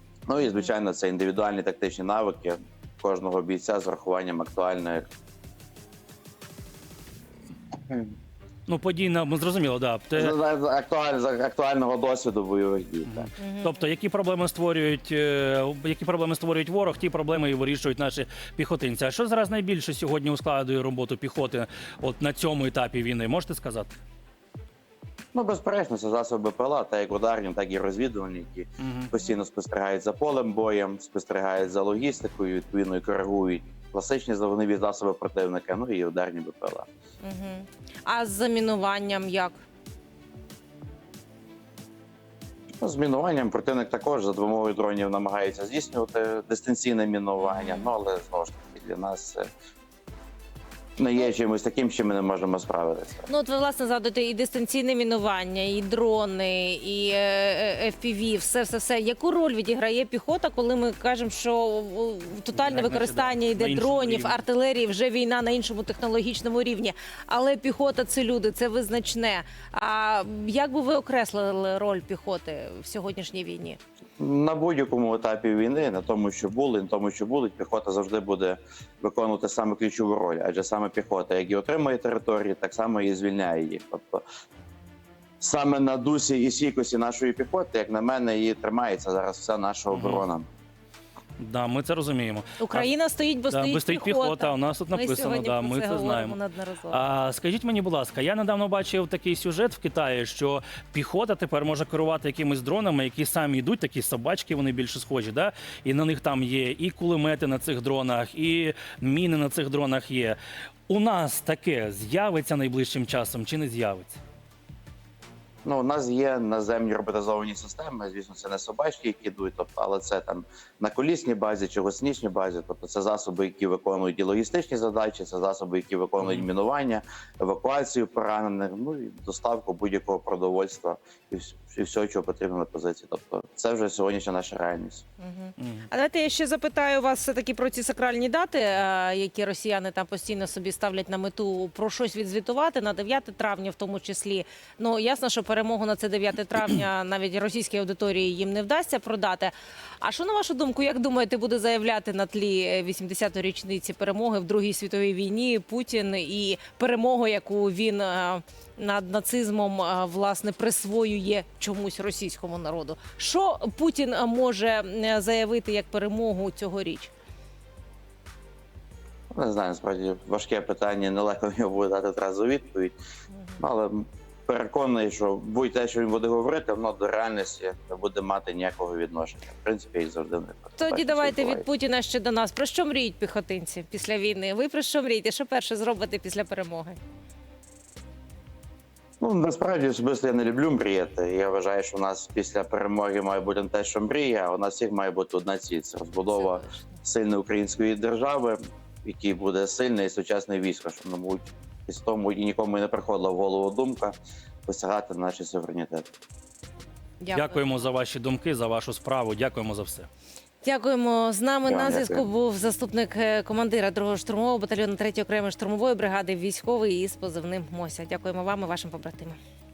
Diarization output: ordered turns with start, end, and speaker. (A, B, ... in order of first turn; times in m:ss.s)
0:00.3-0:05.1 A
0:00.4-0:00.7 B
0:08.7-0:10.4 C
0:10.2-0:13.3 A
0:13.1-0:24.0 C
0:13.4-0:13.8 B
0:25.3-0:36.9 A
0:28.8-0:29.1 C
0:37.2-0:39.6 B
0:42.8-0:49.5 A
0:47.4-0:47.9 B
0:51.0-0:53.3 A
0:53.3-1:13.8 B
1:02.6-1:04.4 C
1:14.2-1:24.2 A
1:25.4-1:30.5 A
1:29.9-1:30.2 C
1:31.4-1:32.9 C
1:32.6-1:37.0 B
1:33.5-1:36.4 C
1:36.9-1:54.2 C
1:55.6-2:15.0 A
2:06.2-2:06.5 C
2:15.2-2:47.1 B
2:15.6-2:15.9 C
2:49.3-2:53.0 A
2:53.6-3:01.7 A
3:00.8-3:07.0 B
3:09.2-3:24.1 A
3:16.3-3:16.8 B
3:24.7-3:26.1 A
3:27.2-3:27.6 B
3:27.3-3:30.1 C
3:30.6-3:39.4 B
3:31.7-3:32.3 A